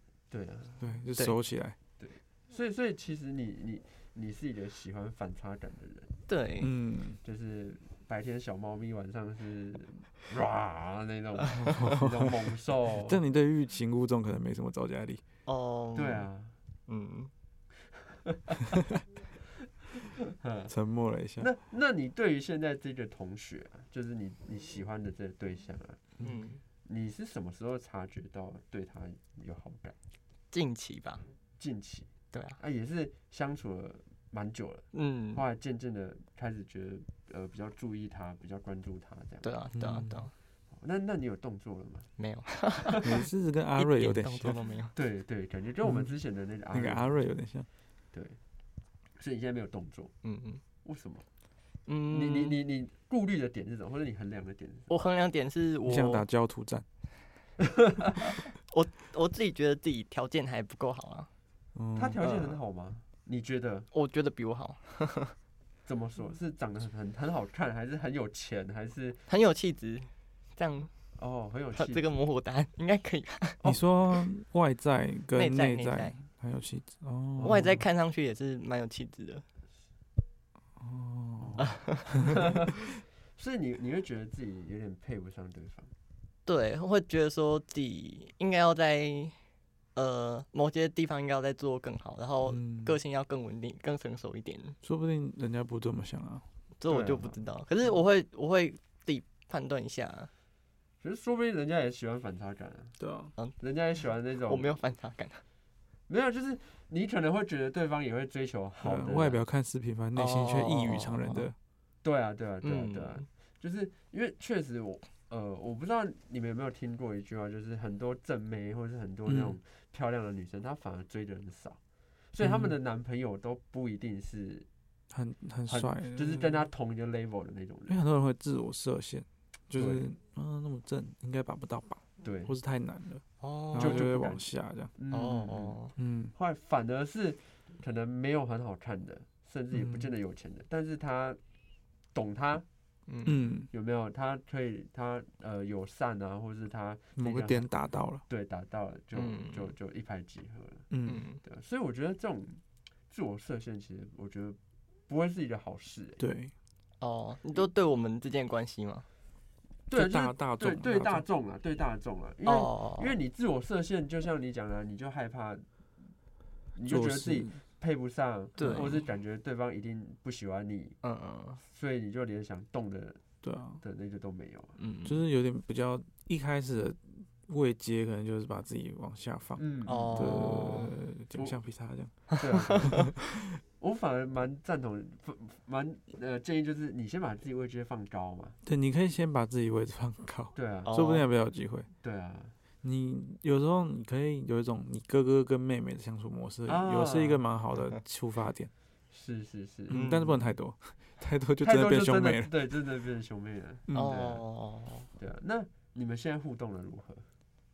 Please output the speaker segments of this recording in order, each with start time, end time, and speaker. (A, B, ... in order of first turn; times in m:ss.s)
0:00.3-0:00.9 A
0:00.8-0:01.8 B
0:02.0-0:06.1 A
0:06.3-0:06.7 C
0:06.6-0:07.2 B
0:07.2-0:13.2 A
0:11.6-0:12.4 B
0:13.0-0:15.2 B
0:15.4-0:16.2 C
0:15.9-0:16.5 A
0:16.9-0:17.3 C
0:18.2-0:18.6 A
0:20.4-0:20.7 A
0:20.7-0:21.5 B
0:21.4-0:26.1 A
0:26.2-0:26.6 C
0:26.8-0:30.0 A
0:30.5-0:31.2 C
0:31.6-0:39.4 A
0:32.3-0:32.6 C
0:34.9-0:35.4 C
0:39.4-0:40.3 C
0:39.7-0:40.2 B
0:40.8-0:42.1 A
0:42.2-0:43.1 C
0:43.0-0:44.6 B
0:43.8-0:44.9 C
0:44.9-0:47.2 A
0:45.8-0:46.1 B
0:46.7-0:47.7 B
0:48.1-0:48.4 A
0:49.2-0:50.1 A
0:50.2-0:50.6 C
0:50.8-0:51.2 A
0:51.9-0:52.6 C
0:52.1-0:54.9 A
0:54.9-0:56.2 C
0:55.8-0:56.8 B
0:57.6-0:58.4 A
0:58.7-1:01.3 C
1:01.7-1:02.2 B
1:02.0-1:03.9 A
1:02.2-1:02.6 C
1:03.9-1:05.3 C
1:05.8-1:09.2 A
1:09.3-1:10.9 C
1:11.2-1:12.1 A
1:11.8-1:13.6 C
1:13.6-1:17.8 B
1:15.3-1:16.2 C
1:17.4-1:17.8 A
1:17.4-1:19.4 C
1:20.8-1:21.6 B
1:21.4-1:25.9 A
1:21.6-1:22.3 C
1:26.4-1:29.4 C
1:29.9-1:34.8 C
1:32.5-1:33.0 B
1:34.8-1:36.4 B
1:36.8-1:40.3 C
1:36.8-1:37.4 A
1:41.0-1:43.0 A
1:43.0-1:43.3 B
1:43.6-1:44.8 A
1:44.5-1:45.4 C
1:46.1-1:49.4 A
1:48.8-1:51.5 B
1:50.2-1:51.5 C
1:52.0-2:01.8 A
1:52.6-1:53.2 C
1:59.2-1:59.6 B
2:02.3-2:04.6 A
2:02.4-2:02.7 B
2:05.1-2:06.5 B
2:05.7-2:08.0 A
2:07.9-2:14.9 B
2:09.7-2:10.0 A
2:12.2-2:12.5 A
2:13.4-2:14.0 C
2:13.8-2:15.8 A
2:15.1-2:15.9 C
2:16.0-2:16.3 B
2:16.3-2:21.4 A
2:19.7-2:20.1 B
2:22.1-2:22.6 A
2:23.1-2:23.4 C
2:23.2-2:23.7 B
2:23.7-2:27.7 A
2:27.2-2:28.2 B
2:28.3-2:30.9 A
2:29.1-2:29.7 C
2:30.9-2:31.2 B
2:31.0-2:31.4 C
2:31.4-2:32.6 A
2:33.1-2:34.6 A
2:35.1-2:36.2 A
2:36.2-2:36.5 B
2:37.0-2:39.0 C
2:39.9-2:45.6 A
2:39.9-2:41.2 B
2:42.4-2:43.1 C
2:46.7-2:51.0 A
2:46.9-2:47.6 B
2:48.6-2:48.9 C
2:48.6-2:49.0 B
2:51.0-2:51.6 C
2:51.6-2:53.2 A
2:53.4-2:53.8 B
2:53.8-2:54.8 A
2:54.8-2:55.2 C
2:55.0-3:03.5 B
2:59.6-3:01.6 A
2:59.8-3:00.9 C
3:02.3-3:03.1 C
3:02.4-3:03.1 A
3:03.8-3:08.6 A
3:08.6-3:11.9 B
3:10.5-3:11.0 A
3:10.8-3:11.2 C
3:12.0-3:12.5 A
3:12.8-3:18.7 B
3:16.6-3:17.4 A
3:19.1-3:20.2 A
3:19.9-3:22.5 B
3:19.9-3:20.3 C
3:21.6-3:24.4 A
3:23.9-3:24.1 B
3:23.9-3:25.1 C
3:25.2-3:27.2 A